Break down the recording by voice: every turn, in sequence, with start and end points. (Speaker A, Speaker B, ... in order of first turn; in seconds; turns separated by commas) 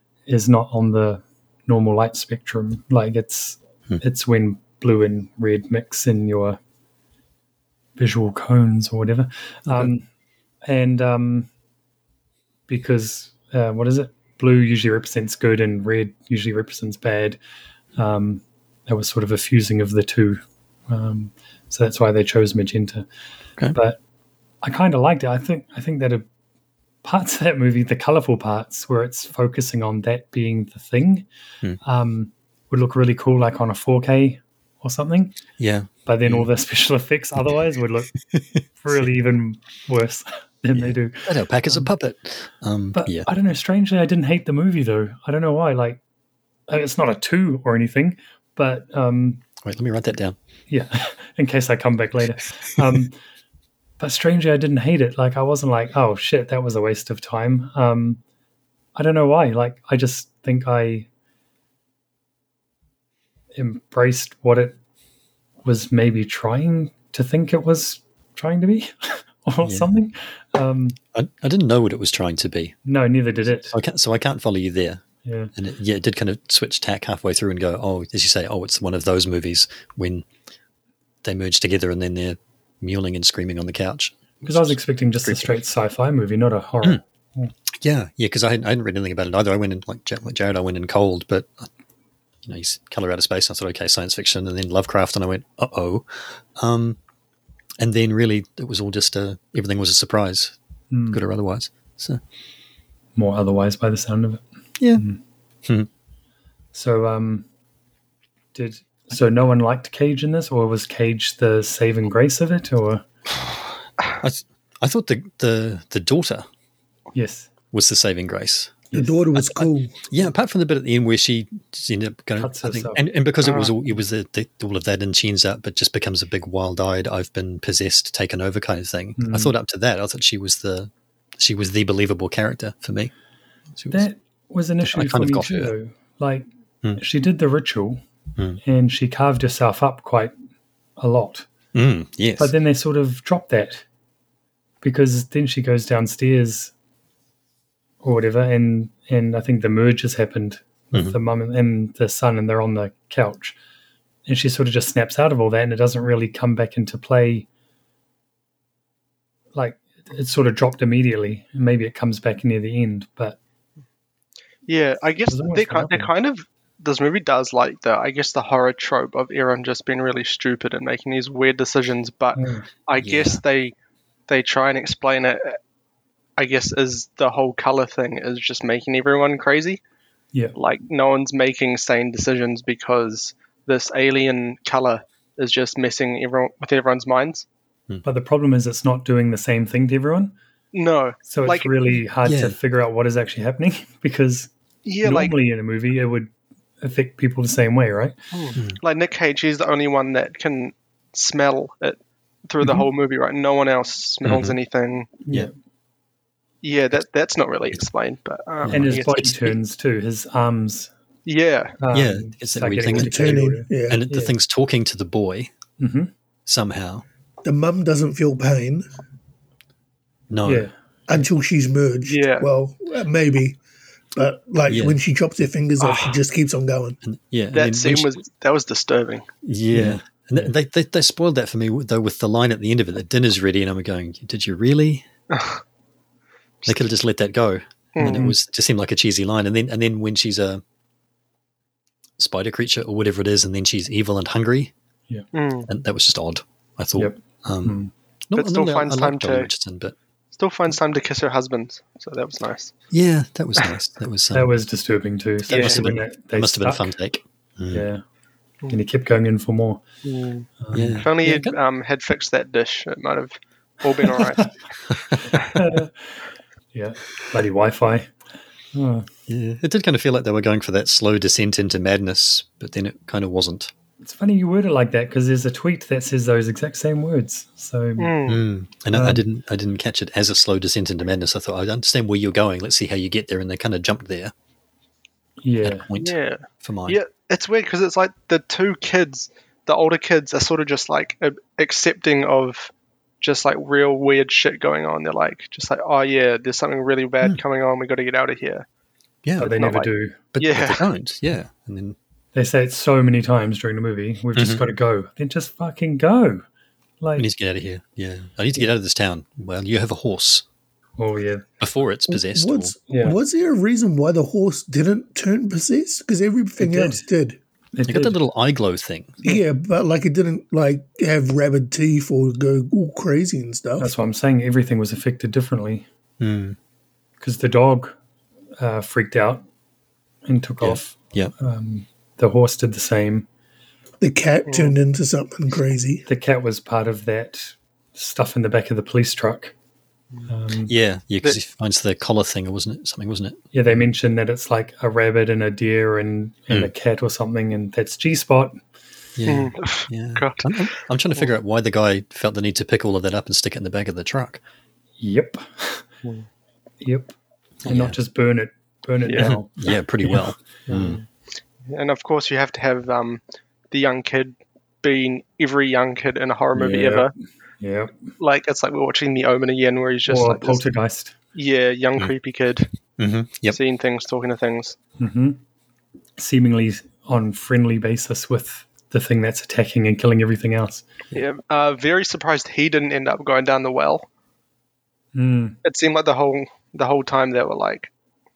Speaker A: 0.3-6.6, Speaker A: 8.0-10.1, Speaker A: 10.7-11.5, Speaker A: 12.7-17.4, Speaker A: 18.0-23.1, Speaker A: 23.7-24.0, Speaker A: 24.6-26.2, Speaker A: 27.0-31.3, Speaker A: 31.8-35.4, Speaker B: 35.6-36.5, Speaker A: 36.1-38.1, Speaker B: 38.3-39.0, Speaker A: 38.8-41.9, Speaker B: 40.7-43.3, Speaker A: 43.0-46.0, Speaker A: 46.7-49.4, Speaker B: 49.6-50.4, Speaker A: 50.7-53.2, Speaker A: 54.0-58.2, Speaker A: 59.0-61.1, Speaker A: 63.5-64.8, Speaker A: 65.6-71.0, Speaker B: 69.6-69.9, Speaker B: 71.1-72.8, Speaker A: 72.8-73.8, Speaker B: 73.7-75.0, Speaker A: 75.2-75.5, Speaker B: 75.5-80.2, Speaker B: 81.2-85.5, Speaker A: 84.5-87.5, Speaker B: 87.8-91.7, Speaker B: 92.5-97.0, Speaker B: 97.8-100.5, Speaker A: 100.9-101.2, Speaker B: 101.1-102.2, Speaker A: 103.2-104.4, Speaker A: 105.0-105.2, Speaker A: 106.7-107.5, Speaker A: 108.5-113.0, Speaker B: 114.2-116.5, Speaker A: 117.1-117.5, Speaker B: 117.7-133.1, Speaker C: 118.9-120.0, Speaker A: 122.4-123.0, Speaker D: 123.4-123.7, Speaker A: 129.2-129.5, Speaker B: 133.8-134.1, Speaker A: 133.9-136.5, Speaker B: 134.8-135.7, Speaker A: 137.0-138.0, Speaker A: 138.6-140.3, Speaker A: 141.0-141.5, Speaker B: 141.7-142.5, Speaker A: 142.4-143.8, Speaker A: 144.8-146.7, Speaker A: 148.0-153.6, Speaker A: 154.3-157.5, Speaker A: 159.6-163.4, Speaker D: 164.7-173.7, Speaker A: 165.3-166.1, Speaker A: 172.3-172.7, Speaker B: 173.0-173.4, Speaker D: 174.3-175.6, Speaker D: 176.4-179.8, Speaker D: 180.6-187.5, Speaker A: 188.0-190.3, Speaker D: 190.7-191.7, Speaker A: 191.2-194.5, Speaker B: 192.2-192.6, Speaker D: 194.8-195.3, Speaker A: 195.0-198.2, Speaker D: 198.3-205.1, Speaker B: 204.2-204.6, Speaker A: 205.2-205.5, Speaker D: 206.6-209.2, Speaker B: 208.6-209.6, Speaker A: 208.7-210.9, Speaker D: 211.3-211.7, Speaker A: 211.8-214.3, Speaker B: 211.9-215.5, Speaker C: 212.9-214.0, Speaker A: 215.8-216.1, Speaker B: 216.5-217.1, Speaker C: 217.4-218.9, Speaker B: 220.3-220.7, Speaker A: 220.4-221.3, Speaker C: 221.1-223.6, Speaker D: 222.1-222.5, Speaker C: 224.1-227.0, Speaker B: 224.7-225.0, Speaker D: 225.8-226.2, Speaker B: 227.0-228.2, Speaker D: 227.5-229.3, Speaker B: 229.4-235.1, Speaker A: 229.7-230.5, Speaker D: 235.3-235.6, Speaker B: 236.7-240.6, Speaker D: 238.0-238.3, Speaker A: 238.1-238.3, Speaker B: 242.2-244.7, Speaker D: 245.3-245.7, Speaker B: 245.7-247.8, Speaker A: 247.0-247.9, Speaker B: 248.3-249.9, Speaker D: 248.3-249.5, Speaker D: 250.4-252.7, Speaker B: 252.9-254.5, Speaker A: 254.3-256.9, Speaker B: 255.5-257.9, Speaker D: 255.5-255.9, Speaker A: 257.7-258.0, Speaker A: 258.7-259.8, Speaker D: 260.0-260.5, Speaker A: 260.6-261.1, Speaker B: 260.7-261.6, Speaker D: 261.0-264.5, Speaker A: 265.4-266.1, Speaker A: 266.7-268.1, Speaker A: 268.7-269.1, Speaker B: 269.3-273.7, Speaker A: 274.0-278.1, Speaker D: 278.0-278.4, Speaker B: 278.3-284.3, Speaker A: 278.9-279.2, Speaker A: 285.4-285.9, Speaker B: 285.6-287.0, Speaker D: 286.0-298.6, Speaker B: 299.2-299.6, Speaker A: 299.4-300.2, Speaker D: 299.4-300.9, Speaker B: 300.3-302.0, Speaker A: 302.3-306.4, Speaker B: 304.4-304.6, Speaker A: 307.0-307.3, Speaker B: 307.2-310.4, Speaker A: 311.0-311.5, Speaker B: 311.6-312.8, Speaker C: 312.1-317.4, Speaker A: 312.9-313.2, Speaker A: 316.6-317.0, Speaker A: 317.7-318.2, Speaker B: 317.9-319.2, Speaker C: 319.2-323.9, Speaker A: 323.8-325.9, Speaker B: 326.2-326.6, Speaker A: 327.2-328.0, Speaker A: 328.6-329.4, Speaker A: 330.3-333.3, Speaker B: 330.6-331.3, Speaker C: 334.0-336.1, Speaker D: 334.5-334.8, Speaker A: 336.1-339.5, Speaker A: 340.3-340.7, Speaker B: 340.7-343.9, Speaker A: 343.5-348.6, Speaker B: 349.2-354.4, Speaker D: 349.3-351.3, Speaker A: 355.0-355.9, Speaker A: 356.8-357.1, Speaker B: 357.6-357.9, Speaker A: 357.7-360.8, Speaker D: 359.1-359.3, Speaker B: 359.2-361.0, Speaker D: 360.7-361.0, Speaker D: 361.7-367.1, Speaker A: 366.6-367.9, Speaker D: 368.2-370.7, Speaker A: 370.1-371.1, Speaker D: 371.4-372.7, Speaker B: 373.0-373.6, Speaker D: 373.5-374.8, Speaker A: 375.0-375.4, Speaker A: 376.2-380.9, Speaker D: 381.1-384.1, Speaker A: 385.1-385.6, Speaker D: 385.6-387.9